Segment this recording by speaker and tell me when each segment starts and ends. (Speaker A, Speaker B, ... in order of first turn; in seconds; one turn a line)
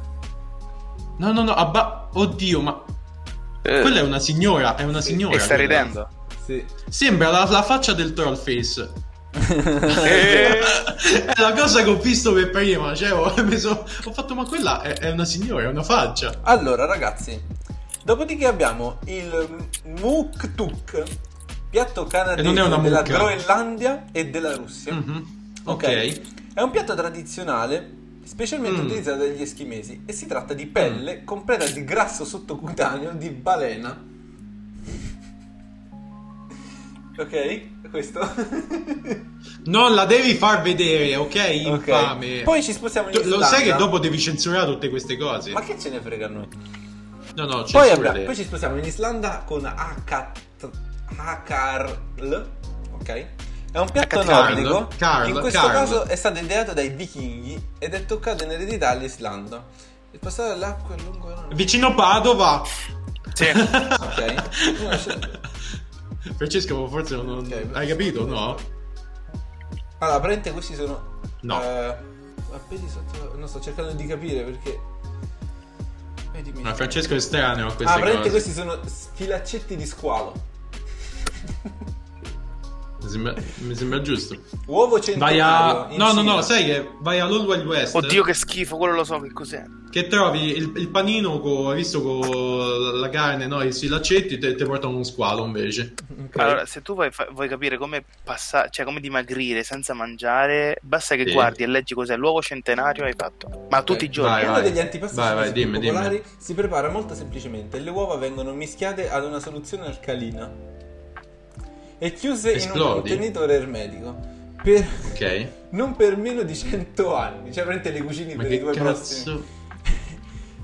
Speaker A: 1.2-2.9
Speaker A: 3.7-6.0
Speaker B: 5.3-6.1
Speaker C: 6.4-6.7
Speaker A: 6.9-9.0
Speaker C: 9.3-10.6
Speaker B: 10.0-10.8
Speaker A: 10.0-16.4
Speaker C: 16.4-17.5
Speaker C: 18.0-21.1
Speaker C: 21.7-25.1
Speaker A: 22.4-23.4
Speaker A: 24.9-26.2
Speaker C: 25.6-34.0
Speaker A: 28.6-29.0
Speaker A: 30.8-31.0
Speaker C: 37.1-39.2
Speaker A: 39.6-42.5
Speaker C: 41.6-43.9
Speaker A: 43.1-45.6
Speaker C: 45.5-46.5
Speaker A: 47.3-48.3
Speaker C: 47.7-61.7
Speaker B: 54.0-54.7
Speaker A: 54.2-56.0
Speaker A: 61.5-62.7
Speaker B: 63.3-63.6
Speaker A: 63.4-65.5
Speaker C: 64.0-65.4
Speaker A: 66.3-68.6
Speaker C: 67.2-68.6
Speaker C: 70.0-74.8
Speaker C: 76.3-77.1
Speaker A: 76.6-78.5
Speaker C: 77.8-80.4
Speaker A: 83.0-84.5
Speaker C: 84.7-86.5
Speaker A: 85.1-88.2
Speaker B: 87.9-89.7
Speaker A: 89.9-96.0
Speaker C: 96.0-96.6
Speaker B: 96.4-104.7
Speaker A: 101.2-101.5
Speaker C: 103.9-110.6
Speaker A: 104.1-106.2
Speaker C: 112.0-119.3
Speaker A: 112.5-113.2
Speaker A: 115.0-115.5
Speaker A: 118.3-119.5